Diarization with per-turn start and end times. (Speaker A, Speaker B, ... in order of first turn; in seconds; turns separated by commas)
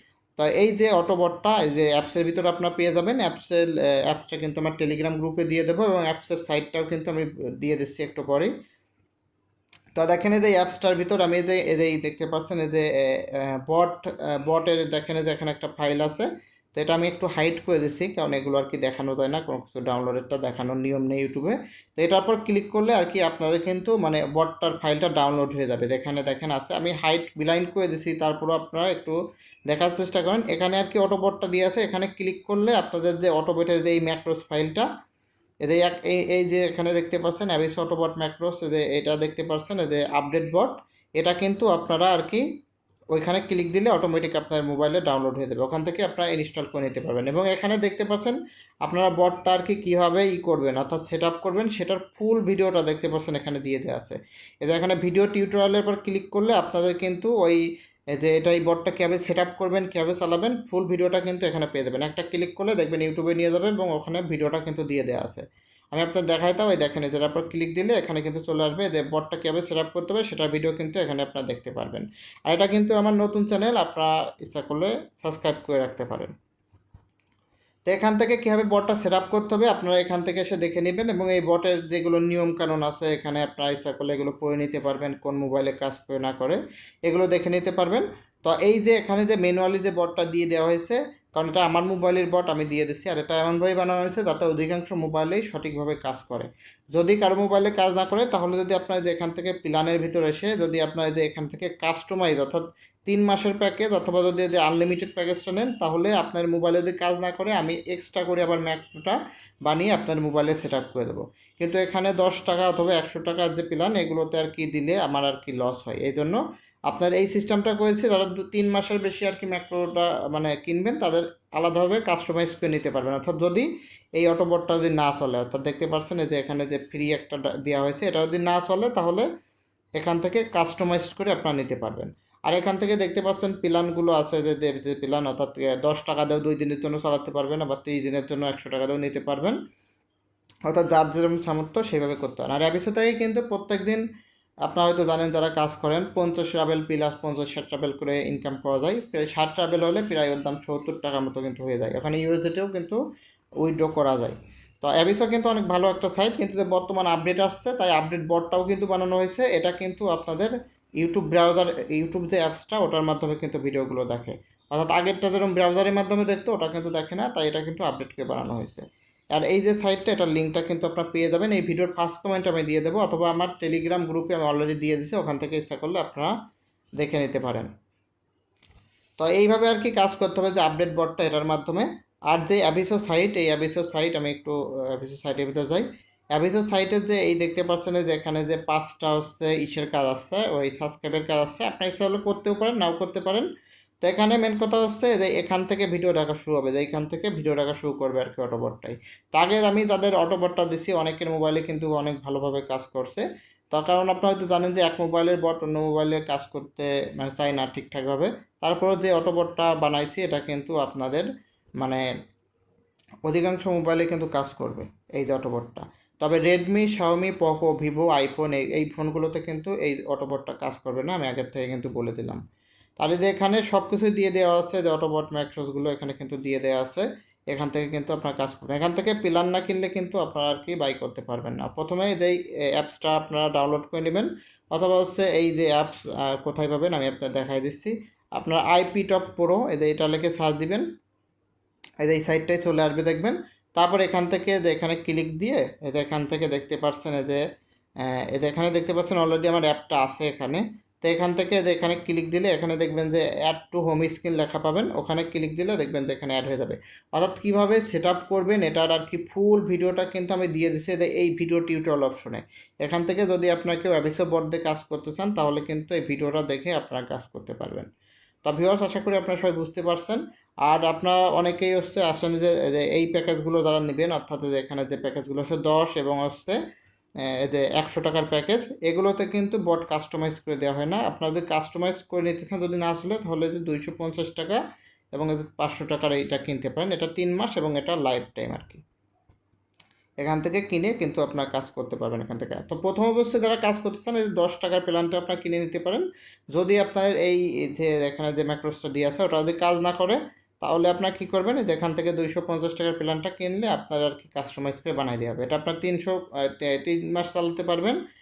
Speaker A: 0.4-8.5, Speaker A: 9.9-29.1, Speaker A: 29.7-34.9, Speaker A: 35.6-42.4, Speaker A: 43.1-57.6, Speaker A: 58.1-76.3, Speaker A: 77.9-129.3, Speaker A: 130.0-139.6, Speaker A: 140.7-144.0, Speaker A: 144.6-153.0, Speaker A: 153.6-176.3, Speaker A: 177.0-177.7, Speaker A: 179.2-193.5, Speaker A: 194.0-211.3, Speaker A: 213.2-222.4, Speaker A: 223.0-240.8, Speaker A: 242.0-247.4, Speaker A: 248.0-267.9, Speaker A: 268.4-276.6, Speaker A: 277.2-284.6, Speaker A: 285.1-288.8, Speaker A: 290.2-308.0